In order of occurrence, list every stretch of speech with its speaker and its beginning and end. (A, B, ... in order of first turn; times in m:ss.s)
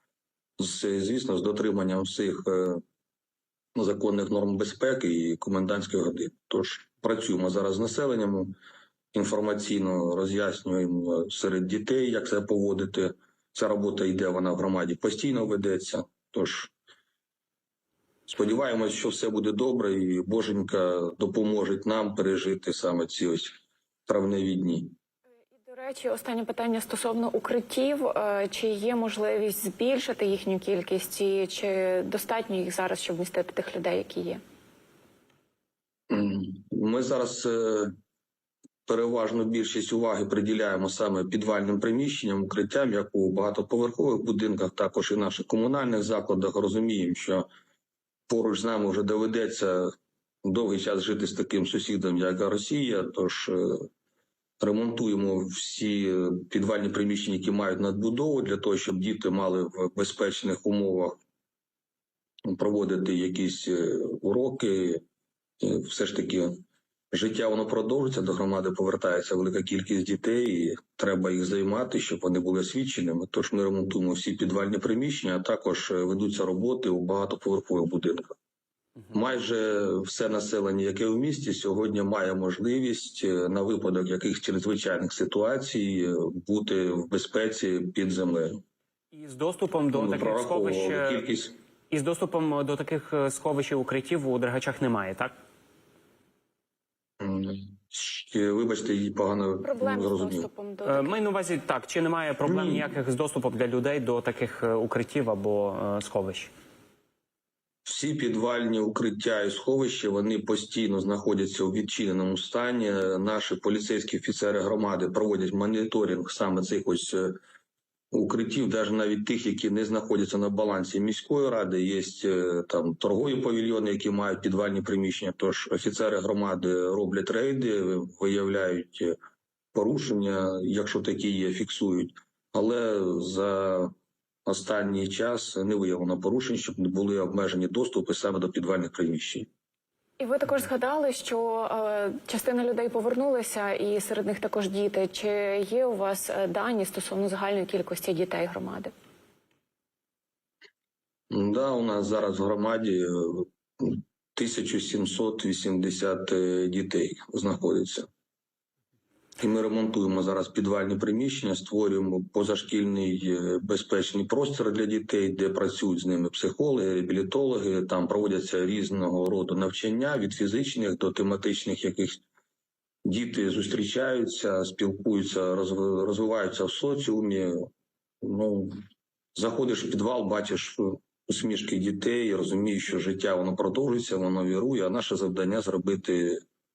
0:00.6-0:02.8 A
0:03.7-0:08.6 A
0:09.1-0:16.7 A
0:18.3-0:23.5 A
0:24.1-0:24.9 A
0:25.6-0:34.4 B
0:36.1-0:37.9 A
0:38.9-0:47.4 A
0:48.3-0:49.9 A
0:50.4-0:53.9 A
0:54.6-1:01.2 A
1:02.4-1:05.0 A
1:05.6-1:18.4 A
1:19.1-1:28.6 A
1:29.1-1:31.2 C
1:29.9-1:31.5 A
1:31.9-1:35.3 C
1:37.2-1:40.5 A
1:39.6-1:41.2 B
1:40.8-1:46.5 C
1:42.5-1:42.9 A
1:47.8-1:57.4 A
1:58.1-2:09.2 A
2:09.7-2:13.9 A
2:14.4-2:19.5 A
2:20.2-2:28.9 B
2:31.3-2:38.1 A
2:39.4-2:52.2 A
2:53.0-2:57.7 A
2:58.2-2:58.8 A
2:59.3-3:06.4 A